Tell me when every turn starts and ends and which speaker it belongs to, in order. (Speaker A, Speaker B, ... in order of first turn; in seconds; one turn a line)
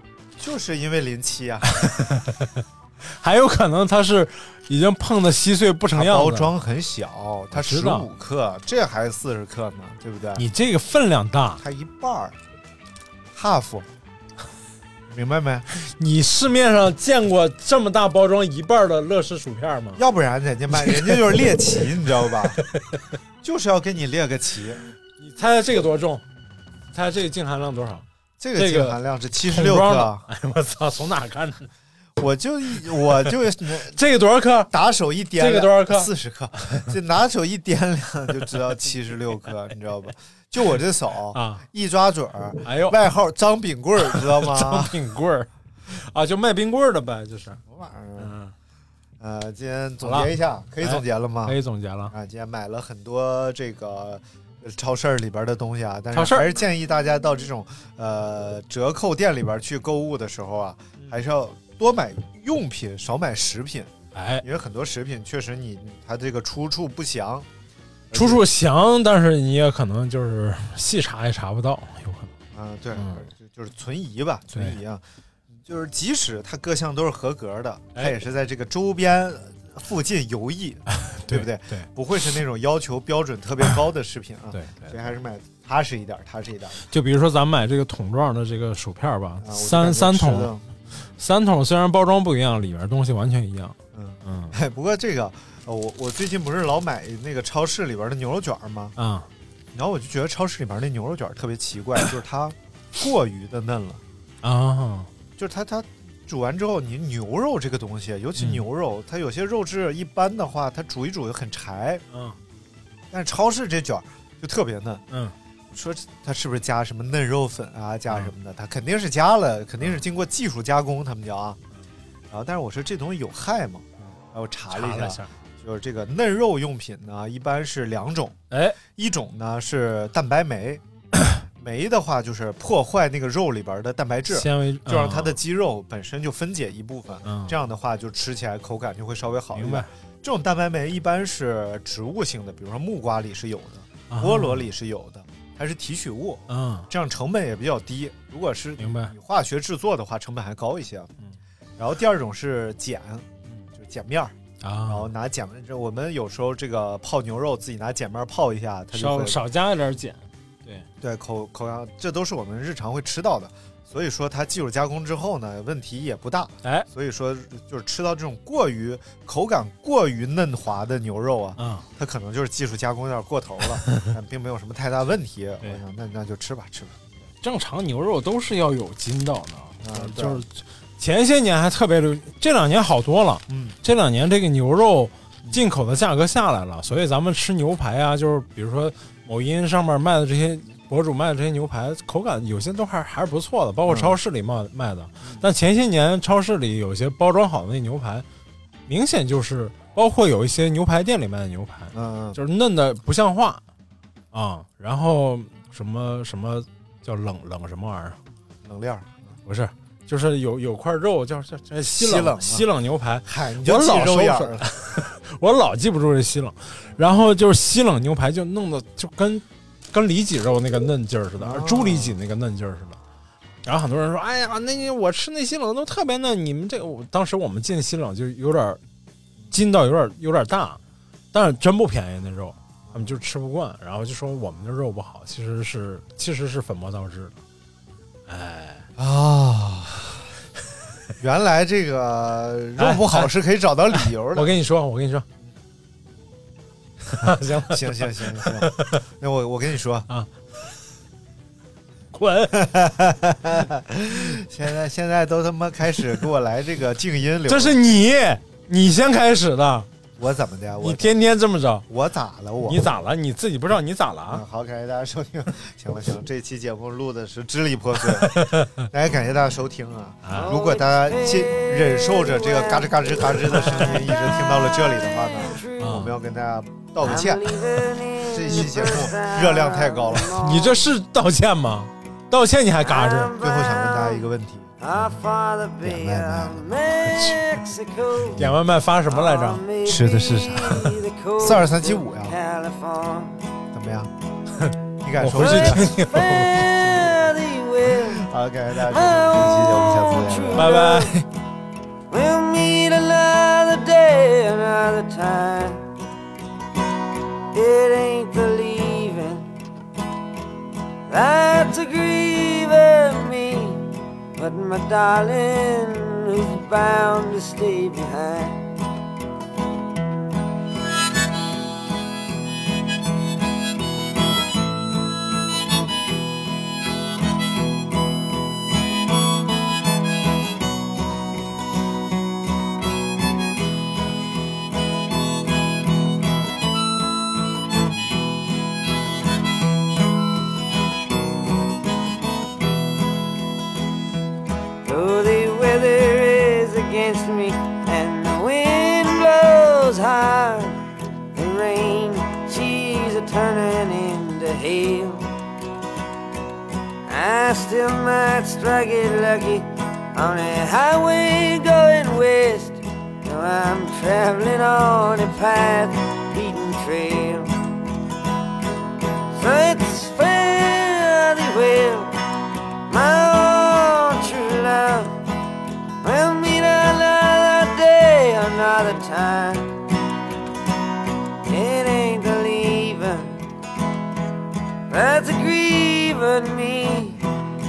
Speaker A: 0.4-1.7
Speaker B: 1.6-6.5
Speaker A: 5.9-10.4
Speaker B: 7.5-8.1
Speaker B: 10.3-11.6
Speaker A: 11.6-12.4
Speaker A: 13.3-13.9
Speaker A: 15.1-15.7
Speaker B: 15.8-20.0
Speaker A: 19.9-22.6
Speaker B: 20.8-21.4
Speaker A: 23.4-24.8
Speaker B: 25.2-26.2
Speaker B: 26.9-31.7
Speaker A: 28.4-30.3
Speaker A: 32.2-34.0
Speaker B: 33.3-34.7
Speaker A: 34.7-45.0
Speaker B: 35.4-36.1
Speaker B: 41.3-41.6
Speaker B: 42.6-43.0
Speaker B: 44.0-47.6
Speaker A: 47.7-48.3
Speaker B: 48.2-48.5
Speaker A: 49.2-51.6
Speaker B: 50.0-52.1
Speaker A: 52.1-67.5
Speaker B: 56.1-56.6
Speaker B: 64.1-64.4
Speaker A: 68.1-68.4
Speaker B: 68.1-72.3
Speaker A: 72.5-86.8
Speaker B: 72.9-73.3
Speaker B: 81.1-81.9
Speaker B: 84.5-85.0
Speaker B: 86.8-90.5
Speaker A: 89.4-90.6
Speaker B: 91.2-94.5
Speaker A: 93.9-98.9
Speaker B: 99.0-99.3
Speaker A: 99.7-104.0
Speaker B: 104.4-105.1
Speaker A: 105.4-112.0
Speaker B: 108.4-108.6
Speaker B: 112.1-112.4
Speaker A: 113.1-115.0
Speaker A: 115.7-121.6
Speaker A: 122.3-130.8
Speaker B: 124.7-125.3
Speaker B: 128.5-128.8
Speaker A: 131.4-151.1
Speaker B: 134.3-135.4
Speaker B: 137.2-137.5
Speaker B: 139.5-139.9
Speaker B: 144.1-144.7
Speaker B: 146.5-146.9
Speaker B: 148.8-149.1
Speaker A: 151.8-154.3
Speaker B: 154.6-155.1
Speaker A: 154.8-159.4
Speaker B: 158.9-160.9
Speaker A: 161.0-177.1
Speaker B: 171.6-171.8
Speaker B: 177.4-198.2
Speaker A: 179.8-180.4
Speaker A: 183.5-183.8
Speaker A: 193.8-194.2
Speaker B: 198.9-203.6
Speaker A: 201.9-202.4
Speaker B: 204.3-208.2
Speaker A: 208.6-209.3
Speaker B: 209.4-223.0
Speaker A: 211.9-212.7
Speaker A: 213.2-214.7
Speaker A: 221.4-222.2
Speaker B: 223.6-228.8
Speaker B: 229.5-230.8
Speaker B: 231.3-237.3
Speaker A: 232.9-233.2
Speaker B: 238.3-238.9
Speaker A: 239.0-240.2
Speaker A: 241.2-244.6
Speaker B: 242.8-243.3
Speaker B: 243.9-245.2
Speaker B: 247.1-249.0
Speaker A: 247.2-250.1
Speaker B: 252.1-252.7
Speaker A: 252.5-257.8
Speaker B: 257.5-259.9
Speaker A: 260.2-261.1
Speaker B: 260.8-261.9
Speaker A: 261.9-262.8
Speaker B: 262.7-264.4
Speaker A: 264.3-277.6
Speaker B: 268.0-268.9
Speaker B: 270.2-270.5
Speaker C: 270.3-275.8
Speaker B: 273.5-274.1
Speaker B: 275.8-276.1
Speaker C: 277.0-280.8
Speaker A: 278.2-280.4
Speaker B: 278.5-279.0
Speaker B: 280.3-283.3
Speaker C: 282.8-284.2
Speaker A: 283.4-285.1
Speaker C: 284.8-288.4
Speaker A: 285.8-287.0
Speaker B: 287.1-287.6
Speaker B: 288.3-289.6
Speaker C: 289.1-293.4
Speaker A: 289.8-292.3
Speaker A: 293.7-294.1
Speaker B: 294.6-296.5
Speaker A: 295.0-297.3
Speaker C: 295.4-298.2
Speaker A: 297.9-300.8
Speaker C: 298.8-301.2
Speaker B: 300.5-301.2
Speaker C: 302.1-305.9
Speaker C: 307.5-309.5
Speaker C: 311.1-318.6
Speaker C: 344.8-355.2
Speaker C: 357.1-367.6
Speaker C: 369.3-372.1
Speaker C: 372.9-375.2
Speaker C: 376.0-379.7
Speaker C: 381.4-383.4
Speaker C: 384.9-387.2